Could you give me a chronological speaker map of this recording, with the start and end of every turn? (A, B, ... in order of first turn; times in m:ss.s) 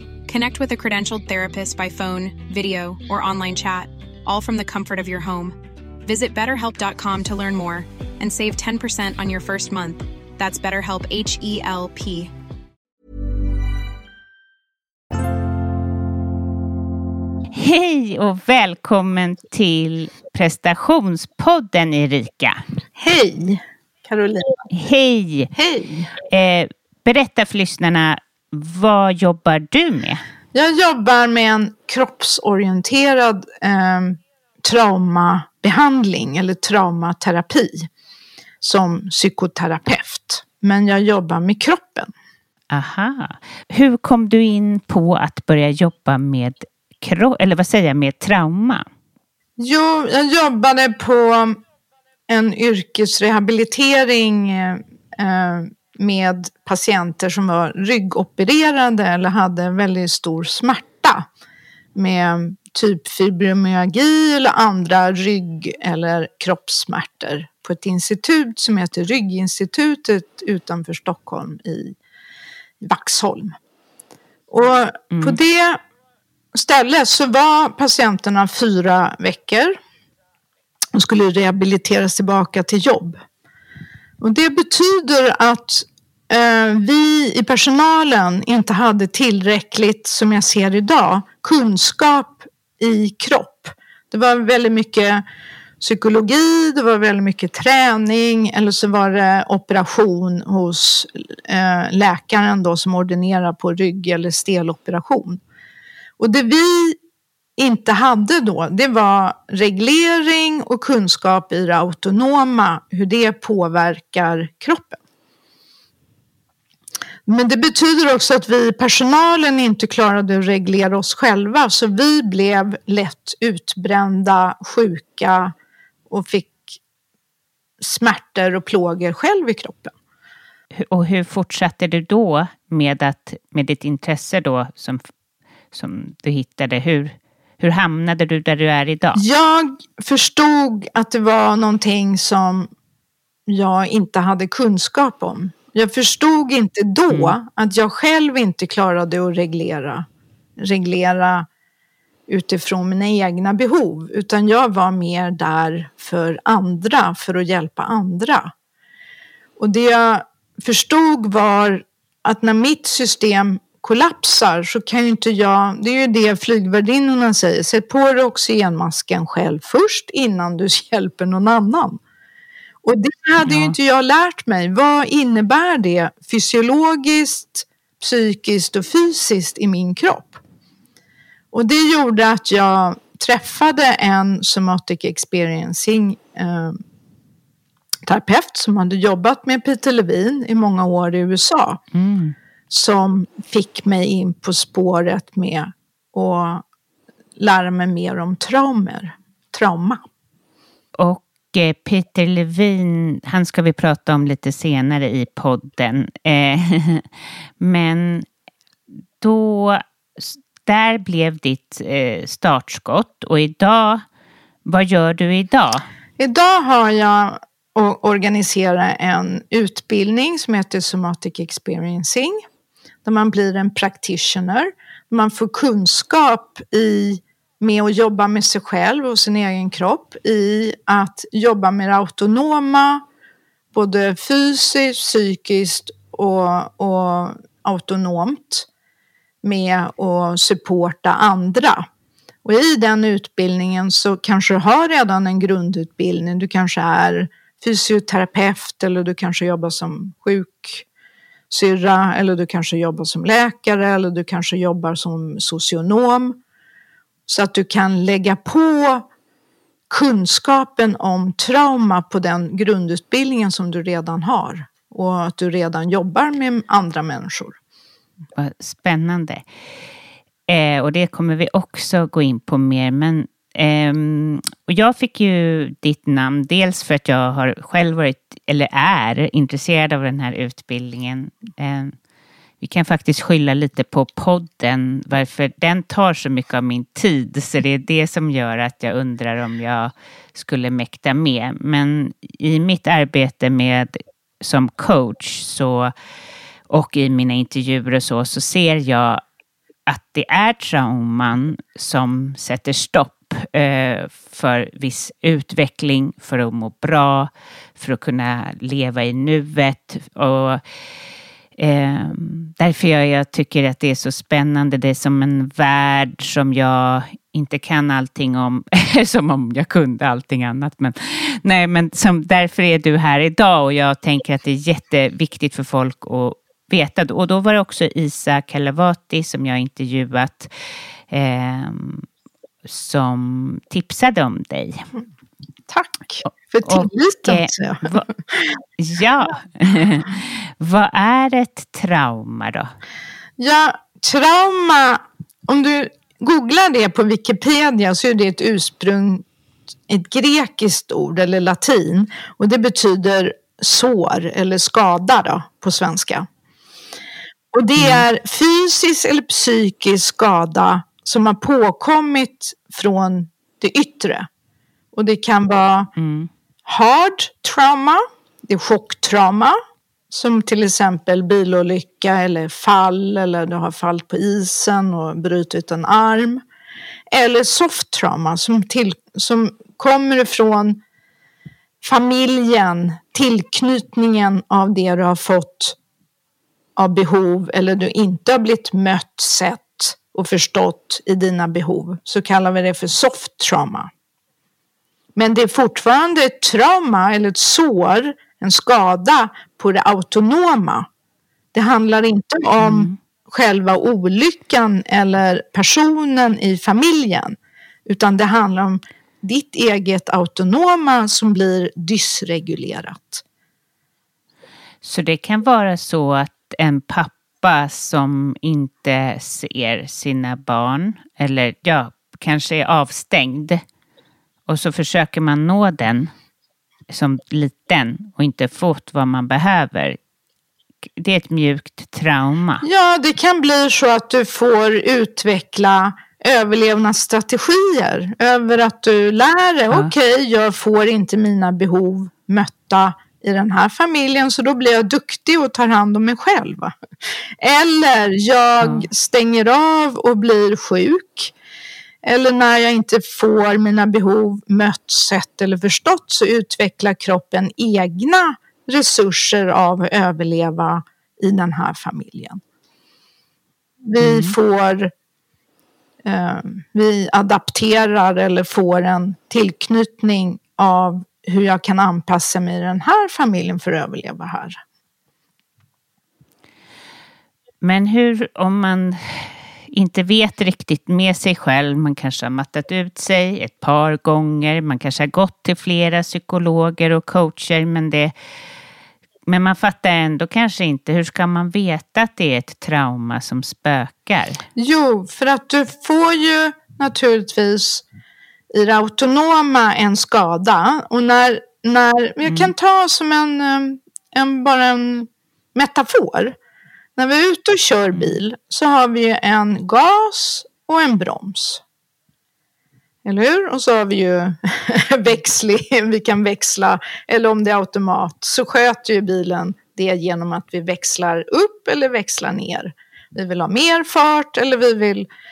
0:00.3-0:12.3 A
0:17.5-0:22.6 B
0:22.9-0:24.7 C
0:24.7-0:25.5 B
0:25.5-0:26.1 C
0:26.3-0:30.2 B
0:30.5-0:37.9 C
0:38.6-0:42.1 C
0:42.7-0:48.8 B
0:49.6-0:51.6 C
0:52.3-1:01.3 C
1:01.9-1:12.0 C
1:12.8-1:13.5 C
1:14.5-1:15.8 C
1:15.1-1:15.4 B
1:16.5-1:19.8 C
1:20.9-1:23.2 C
1:24.2-1:35.2 C
1:35.8-1:45.4 C
1:46.2-1:47.0 C
1:47.6-1:55.0 C
1:57.2-2:05.5 C
2:06.1-2:06.8 C
2:07.8-2:09.9 C
2:10.8-2:15.0 B
2:15.7-2:19.2 B
2:19.1-2:22.7 C
2:23.5-2:30.0 C
2:27.1-2:27.3 B
2:30.6-2:31.5 C
2:32.3-2:38.5 C
2:39.6-2:52.0 C
2:52.8-3:00.4 C
2:53.4-2:53.7 B
3:01.5-3:06.8 C
3:08.0-3:11.8 C
3:11.9-3:12.3 B
3:12.7-3:16.6 C
3:17.4-3:20.0 C
3:21.0-3:27.1 B
3:27.6-3:28.3 B
3:29.2-3:34.0 B
3:34.6-3:35.8 B
3:36.2-3:42.4 C
3:43.0-3:53.0 C
3:53.7-3:58.7 C
3:59.4-4:01.9 C
4:02.4-4:10.8 C
4:11.5-4:16.4 C
4:17.3-4:19.1 C
4:19.9-4:27.6 C
4:28.4-4:29.4 B
4:30.5-4:42.0 B
4:42.6-4:55.9 B
4:56.7-4:59.2 B
4:59.9-5:10.6 B
5:11.6-5:30.5 B
5:31.1-5:32.1 B
5:32.6-5:34.9 B
5:35.7-5:38.3 C
5:36.6-5:38.1 B
5:38.8-5:42.7 B
5:43.4-5:49.2 C
5:49.9-5:56.3 C
5:57.5-6:04.3 C
5:57.8-5:58.0 B
6:04.9-6:05.9 C
6:06.0-6:06.3 B
6:06.6-6:09.6 C
6:10.1-6:16.4 C
6:17.1-6:20.8 C
6:21.8-6:25.8 C
6:26.8-6:33.9 C
6:35.1-6:40.9 C
6:41.5-6:53.2 C
6:42.6-6:43.0 B
6:54.8-7:03.6 B
7:04.5-7:06.1 B
7:06.9-7:10.0 B
7:11.0-7:12.6 B
7:12.6-7:26.8 C
7:27.4-7:31.3 C
7:28.6-7:28.9 B
7:32.0-7:42.4 C
7:43.8-7:44.9 C
7:44.0-7:44.3 B
7:46.0-7:54.6 C
7:57.6-8:08.1 B
8:09.3-8:14.4 B
8:14.6-8:17.8 C
8:18.5-8:26.4 C
8:22.2-8:22.5 B
8:27.0-8:31.6 C
8:27.9-8:28.2 B
8:33.0-8:45.1 C